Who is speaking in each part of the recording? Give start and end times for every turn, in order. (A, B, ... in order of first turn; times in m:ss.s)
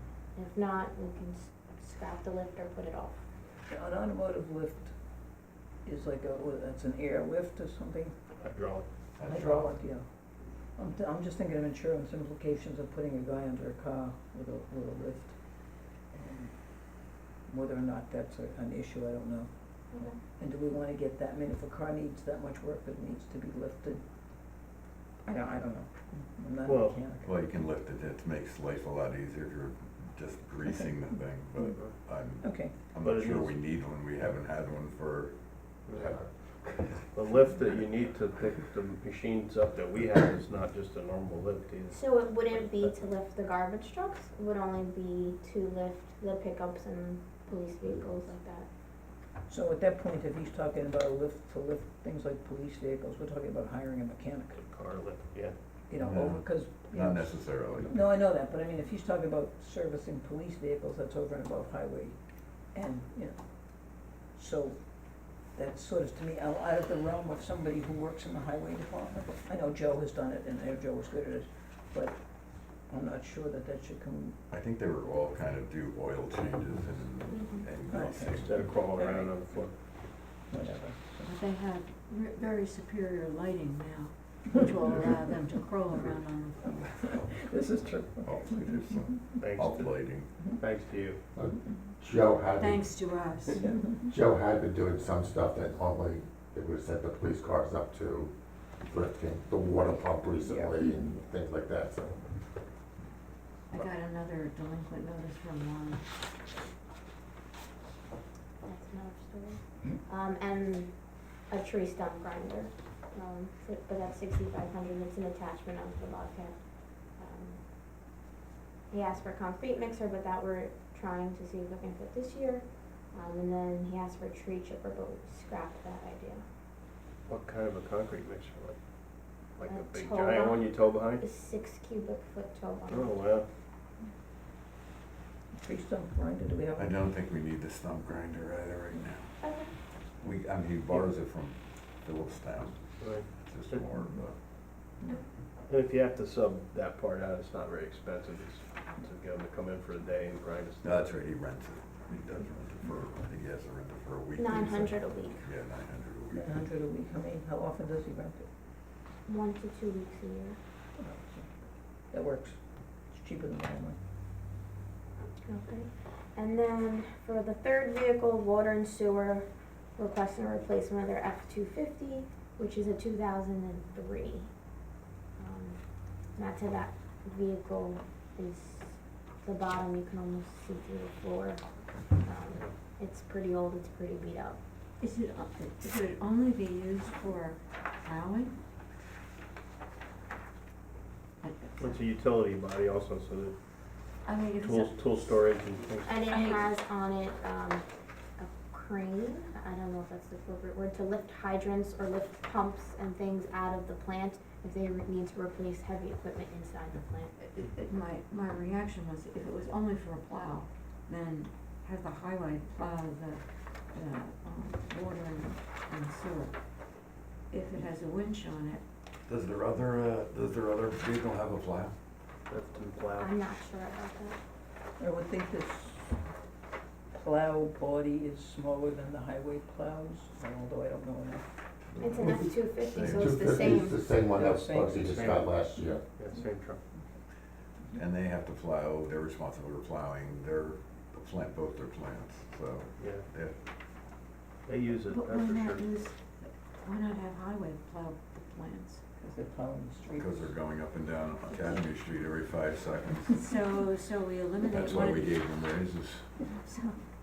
0:00.3-0:03.2 A
0:03.7-0:04.9 B
0:05.8-0:08.1 B
0:08.4-0:08.8 C
0:09.2-0:09.7 D
0:09.2-0:10.1 B
0:10.8-0:15.4 B
0:16.1-0:16.5 B
0:17.5-0:19.5 B
0:19.9-0:20.2 A
0:20.4-0:24.0 B
0:25.2-0:27.4 B
0:26.6-0:27.0 C
0:27.1-0:35.3 D
0:31.7-0:32.0 C
0:32.4-0:32.8 B
0:33.0-0:33.6 C
0:35.9-0:36.1 C
0:35.9-0:36.9 E
0:37.1-0:43.1 C
0:41.9-0:48.7 A
0:49.5-0:54.6 B
0:54.5-0:55.5 C
0:55.9-1:02.2 B
0:56.0-0:57.9 D
1:02.7-1:03.4 B
1:04.3-1:04.8 B
1:05.5-1:12.2 B
1:12.9-1:14.4 B
1:14.5-1:18.6 D
1:17.3-1:17.6 A
1:17.9-1:18.8 B
1:18.3-1:19.7 C
1:20.5-1:21.3 B
1:21.2-1:26.9 F
1:26.6-1:29.2 B
1:28.2-1:30.5 D
1:29.4-1:30.0 C
1:30.5-1:31.2 C
1:31.3-1:33.0 E
1:32.6-1:33.6 F
1:33.6-1:34.1 B
1:34.0-1:42.2 E
1:40.4-1:41.2 B
1:43.7-1:46.0 F
1:48.6-1:57.6 A
1:58.9-2:06.4 A
2:07.3-2:08.8 C
2:09.6-2:11.2 C
2:09.6-2:13.2 A
2:12.9-2:13.5 C
2:15.5-2:17.0 B
2:16.7-2:19.4 D
2:19.4-2:19.8 A
2:20.0-2:24.4 D
2:23.0-2:23.9 C
2:25.7-2:31.2 C
2:30.8-2:36.5 D
2:34.4-2:35.4 A
2:36.3-2:38.5 B
2:39.2-2:40.6 A
2:41.0-2:41.5 B
2:42.1-2:42.6 B
2:43.1-2:44.0 B
2:45.5-2:54.5 A
2:55.4-3:01.6 A
3:02.2-3:04.6 A
3:05.0-3:08.5 F
3:11.4-3:12.0 F
3:11.8-3:13.5 C
3:14.2-3:15.1 F
3:14.6-3:16.2 C
3:16.0-3:17.8 A
3:16.2-3:16.7 F
3:18.4-3:27.3 A
3:27.4-3:36.6 F
3:37.5-3:38.8 F
3:39.2-3:41.9 D
3:42.5-3:43.3 C
3:43.2-3:44.4 A
3:45.0-3:46.2 B
3:47.1-3:51.4 B
3:51.9-3:53.6 D
3:52.0-3:54.0 A
3:52.2-3:56.0 E
3:54.3-3:55.1 B
3:54.9-3:55.5 C
3:56.2-3:56.8 C
3:57.9-4:03.5 D
4:03.0-4:03.3 C
4:04.6-4:05.9 C
4:05.1-4:09.0 F
4:09.2-4:10.5 B
4:10.2-4:13.4 D
4:13.3-4:15.6 F
4:14.7-4:16.4 D
4:16.4-4:17.0 F